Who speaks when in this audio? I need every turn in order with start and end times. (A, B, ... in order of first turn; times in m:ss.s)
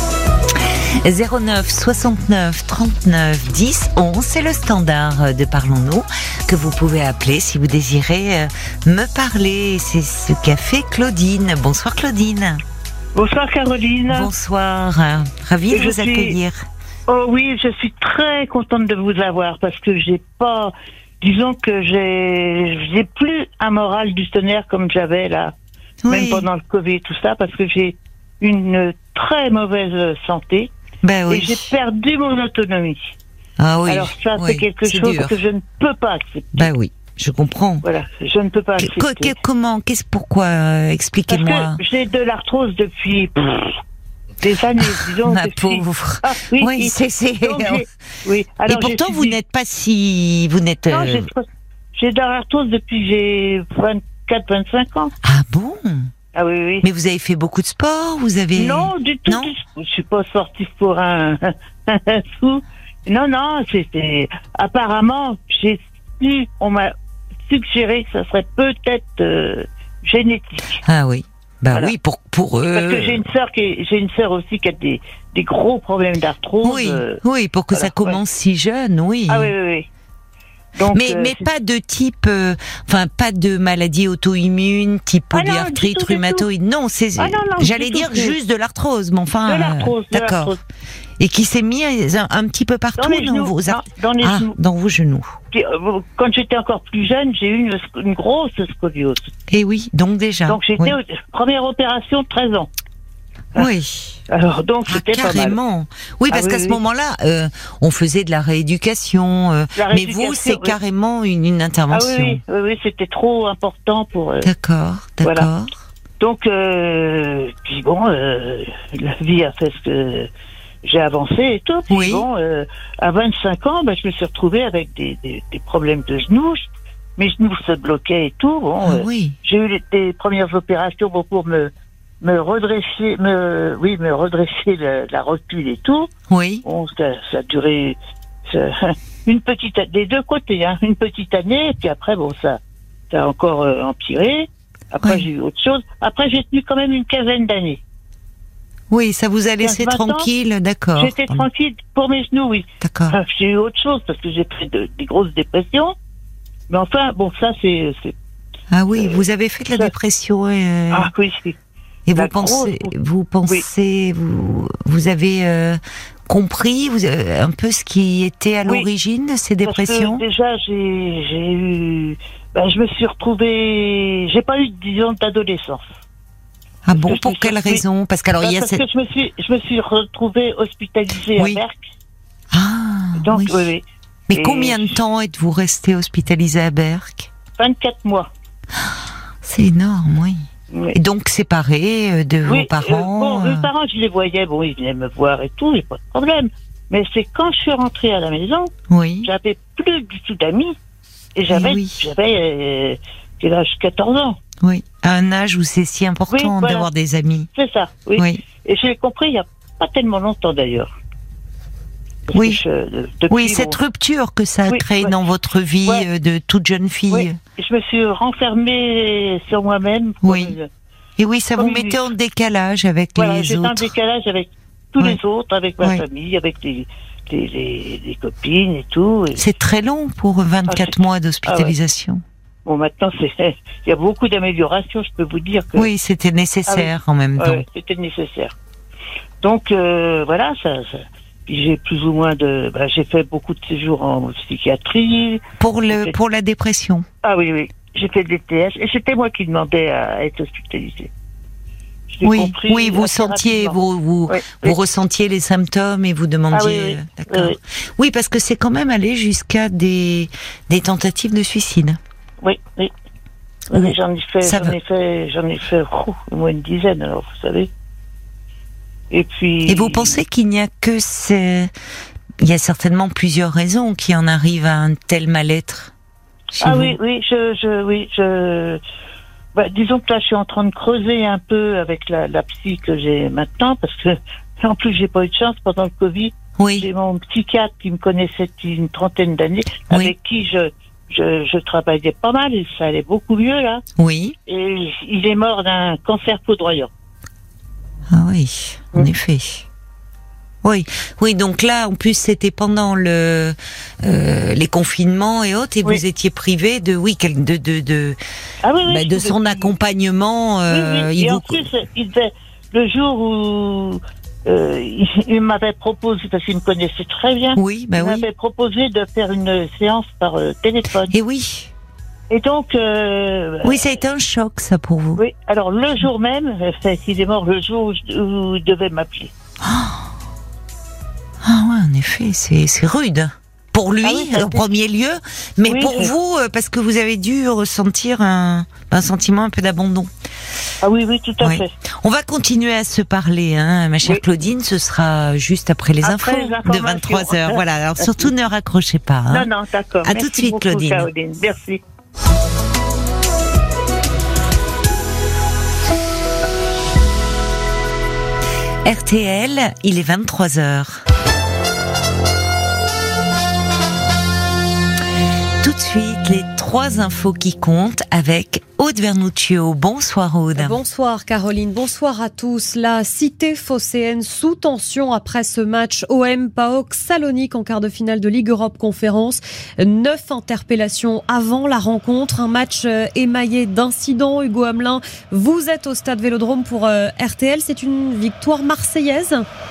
0:00.9-0:12.6 A
0:13.1-0:14.3 B
0:14.1-0:16.6 A
0:15.7-0:16.4 B
0:17.1-0:25.5 B
0:26.0-0:26.5 A
0:26.1-0:30.7 B
0:31.0-0:31.6 A
0:31.3-0:33.1 B
0:33.6-0:35.3 A
0:33.9-0:36.7 B
0:36.5-0:37.9 A
0:37.8-0:39.3 B
0:38.8-0:41.8 A
0:41.3-0:43.8 B
0:44.4-0:49.4 B
0:44.8-0:47.8 A
0:48.7-0:51.3 A
0:50.9-0:51.4 B
0:52.0-0:55.1 B
0:55.2-0:56.1 A
0:56.3-0:56.8 B
0:56.8-0:59.5 A
0:58.6-1:06.9 B
1:07.5-1:10.8 B
1:10.8-1:13.2 A
1:12.7-1:17.2 B
1:16.6-1:19.5 A
1:17.7-1:18.2 B
1:19.3-1:19.9 B
1:20.8-1:21.4 B
1:20.9-1:30.5 A
1:25.3-1:26.4 B
1:27.2-1:28.3 B
1:29.4-1:30.6 B
1:31.2-1:35.3 A
1:33.0-1:34.5 B
1:35.5-1:39.3 B
1:39.5-1:41.0 A
1:40.5-1:42.7 B
1:43.6-1:44.2 A
1:44.3-1:45.6 B
1:44.8-1:52.4 A
1:46.3-1:46.8 B
1:49.8-1:50.8 B
1:51.9-1:54.5 B
1:54.4-1:55.7 A
1:56.2-2:00.3 B
2:00.8-2:06.6 B
2:01.9-2:02.2 A
2:07.2-2:11.7 B
2:08.8-2:09.4 A
2:12.2-2:16.1 B
2:16.3-2:16.6 A
2:16.6-2:18.0 B
2:18.5-2:22.6 B
2:23.1-2:27.8 B
2:28.9-2:31.4 A
2:29.6-2:30.3 B
2:31.0-2:35.9 B
2:32.8-2:33.2 A
2:36.7-2:38.1 B
2:38.7-2:41.1 A
2:40.9-2:41.6 B
2:42.1-2:50.2 A
2:42.1-2:42.9 B
2:49.6-2:55.8 B
2:56.8-2:58.8 A
2:56.9-2:57.8 B
2:58.4-3:01.8 B
3:01.4-3:01.6 A
3:02.5-3:03.6 A
3:03.2-3:05.0 B
3:04.3-3:07.3 A
3:07.6-3:08.3 B
3:09.4-3:13.7 A
3:10.7-3:11.0 B
3:12.4-3:18.7 B
3:18.9-3:19.3 A
3:19.2-3:20.8 B
3:21.4-3:24.4 B
3:21.5-3:22.0 A
3:24.6-3:27.5 A
3:26.3-3:26.9 B
3:27.5-3:30.9 B
3:28.2-3:28.4 A
3:32.3-3:33.8 B
3:32.3-3:32.6 A
3:33.3-3:37.4 A
3:34.7-3:35.1 B
3:37.1-3:40.7 B
3:40.2-3:40.6 A
3:41.2-3:43.9 A
3:41.6-3:42.0 B
3:43.2-3:49.5 B
3:49.4-3:52.2 A
3:51.4-3:51.7 B
3:52.6-3:55.9 B
3:55.8-3:57.6 A
3:56.7-3:58.5 B
3:59.4-4:06.1 B
4:05.6-4:07.0 A
4:07.2-4:11.1 B
4:12.1-4:13.8 B
4:12.2-4:22.0 A
4:14.3-4:14.8 B
4:16.5-4:17.6 B
4:22.4-4:22.9 B
4:23.7-4:27.7 B
4:23.7-4:24.8 A
4:29.1-4:30.2 B
4:29.6-4:31.7 A
4:32.4-4:35.9 A
4:36.6-4:37.0 A
4:36.6-4:38.8 B
4:39.5-4:53.8 B
4:46.6-4:46.9 A
4:54.0-4:54.3 A
4:54.5-4:56.9 B
4:58.1-4:59.6 A
5:00.6-5:08.2 A
5:08.6-5:09.7 B
5:08.8-5:11.6 A
5:10.7-5:21.1 B
5:17.5-5:18.3 A
5:21.1-5:21.7 A
5:22.3-5:23.9 B
5:23.6-5:25.2 A
5:25.2-5:29.3 B
5:29.6-5:30.1 A
5:31.4-5:40.1 A
5:34.0-5:34.6 B
5:35.6-5:36.1 B
5:40.8-5:41.7 B
5:41.4-5:49.5 A
5:46.0-5:48.0 B
5:49.3-5:51.8 B
5:50.0-5:51.1 A
5:58.8-6:01.0 A
6:05.6-6:10.8 A
6:10.5-6:29.4 C